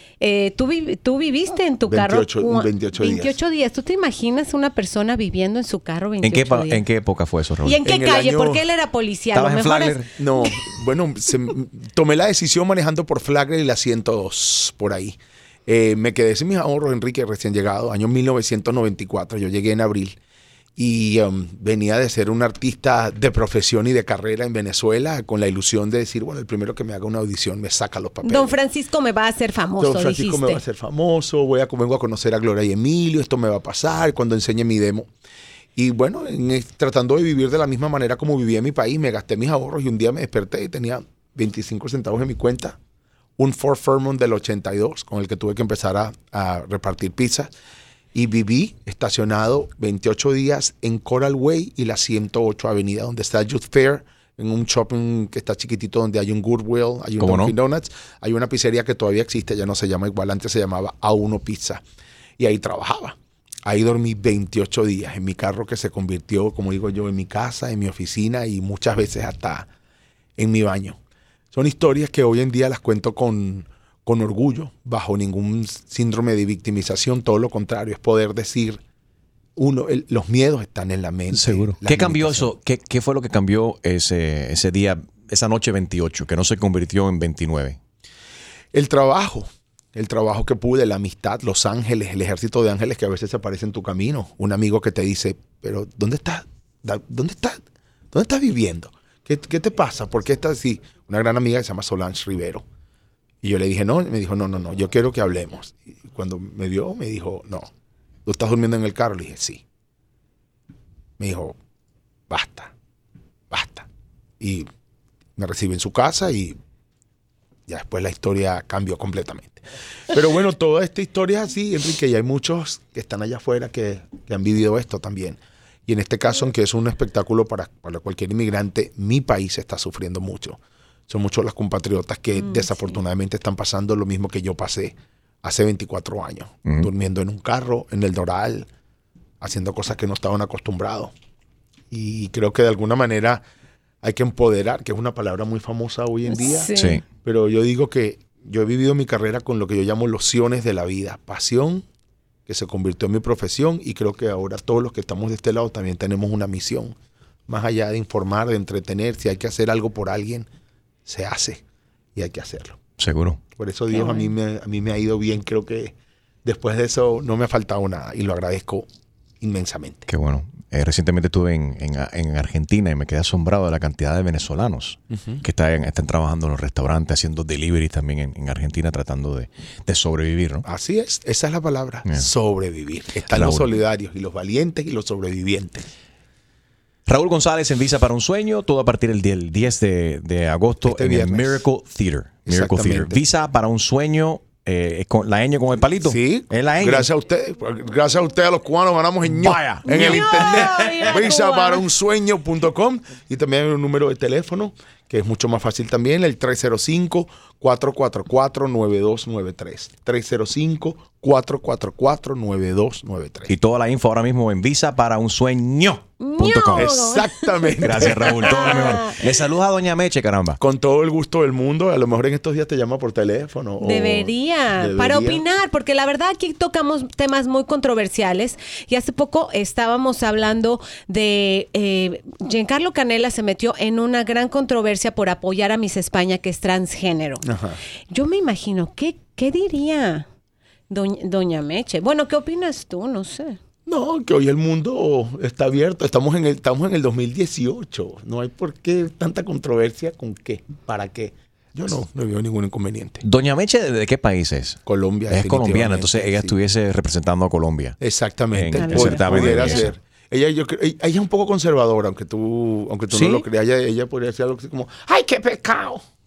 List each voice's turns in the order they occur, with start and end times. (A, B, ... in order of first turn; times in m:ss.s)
0:00.2-0:06.8 A
0:01.9-0:03.4 B
0:06.2-0:07.8 C
0:07.6-0:10.6 A
0:07.8-0:08.7 B
0:09.3-0:10.1 C
0:10.2-0:20.2 B
0:20.8-0:28.6 B
0:28.2-0:30.6 A
0:29.8-0:35.1 B
0:35.8-0:42.8 B
0:43.4-0:47.5 B
0:48.1-1:01.8 B
0:57.2-0:57.5 C
1:02.4-1:03.2 B
1:03.7-1:09.7 B
1:10.4-1:11.0 B
1:11.5-1:18.8 B
1:19.6-1:22.5 B
1:21.3-1:27.8 C
1:28.7-1:37.6 B
1:38.1-1:42.6 B
1:43.4-1:47.7 B
1:48.3-1:49.6 B
1:51.2-1:51.6 B
1:52.3-1:52.7 B
1:53.5-1:53.9 B
1:54.4-1:54.7 B
1:55.4-1:56.6 B
1:57.7-2:18.7 B
2:12.4-2:13.0 A
2:19.4-2:21.1 B
2:21.9-2:23.4 B
2:24.0-2:31.8 B
2:26.3-2:27.0 A
2:26.8-2:27.0 C
2:32.5-2:37.0 B
2:37.5-2:40.5 B
2:41.1-2:41.6 B
2:42.2-2:42.8 B
2:43.0-2:43.4 C
2:43.6-2:48.9 B
2:43.9-2:44.3 A
2:49.4-2:50.1 B
2:50.1-3:00.6 C
2:55.1-2:55.4 B
3:00.6-3:05.9 B
3:03.3-3:03.7 C
3:07.1-3:17.1 C
3:10.8-3:11.6 B
3:12.5-3:13.2 B
3:16.0-3:33.5 B
3:19.2-3:21.2 C
3:19.9-3:21.9 A
3:33.5-3:36.9 C
3:36.2-3:39.2 A
3:36.7-3:39.1 B
3:37.8-3:40.6 C
3:40.6-3:45.4 B
3:43.8-3:57.5 A
3:57.4-3:57.8 B
3:58.1-4:00.3 A
4:00.9-4:03.6 A
4:03.9-4:13.2 B
4:13.2-4:18.0 C
4:14.9-4:16.6 B
4:18.0-4:26.0 B
4:18.5-4:19.9 C
4:18.7-4:19.9 A
4:23.1-4:23.4 C